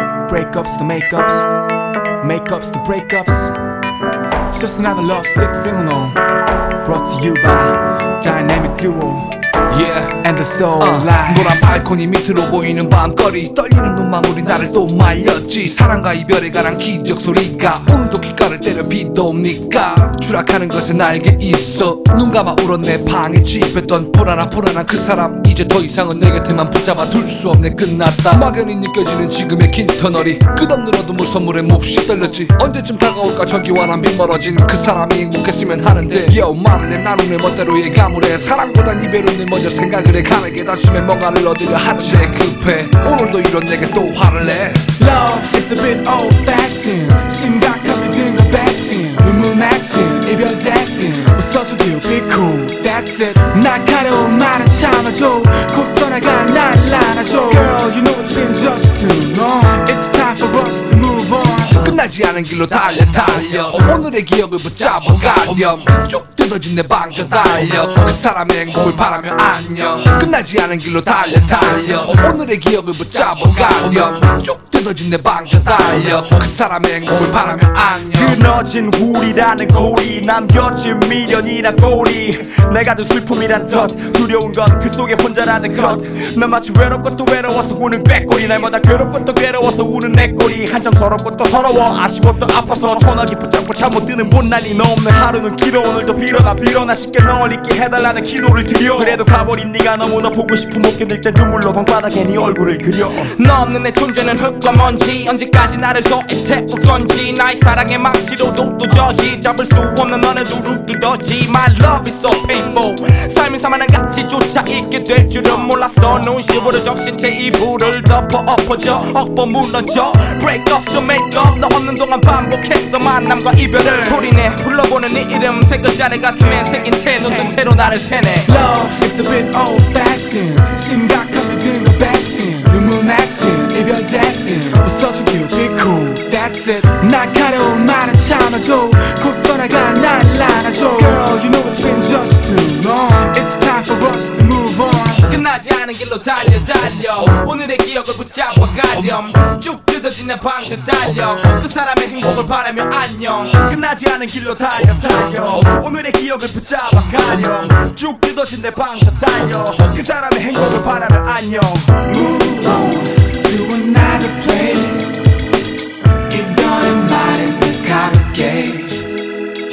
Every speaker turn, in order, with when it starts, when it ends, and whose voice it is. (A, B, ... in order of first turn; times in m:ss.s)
0:00.2-0:01.5 A
0:02.2-0:03.6 A
0:04.5-0:06.2 A
0:06.8-0:09.3 A
0:09.7-0:10.2 B
0:10.2-0:11.6 A
0:10.8-0:44.9 B
0:45.0-1:01.8 A
1:01.7-1:18.4 B
1:18.1-1:43.3 C
1:43.3-2:08.5 D
2:08.4-2:25.2 A
2:25.2-2:33.6 D
2:33.6-2:42.0 C
2:42.0-2:45.3 A
2:46.3-2:49.1 A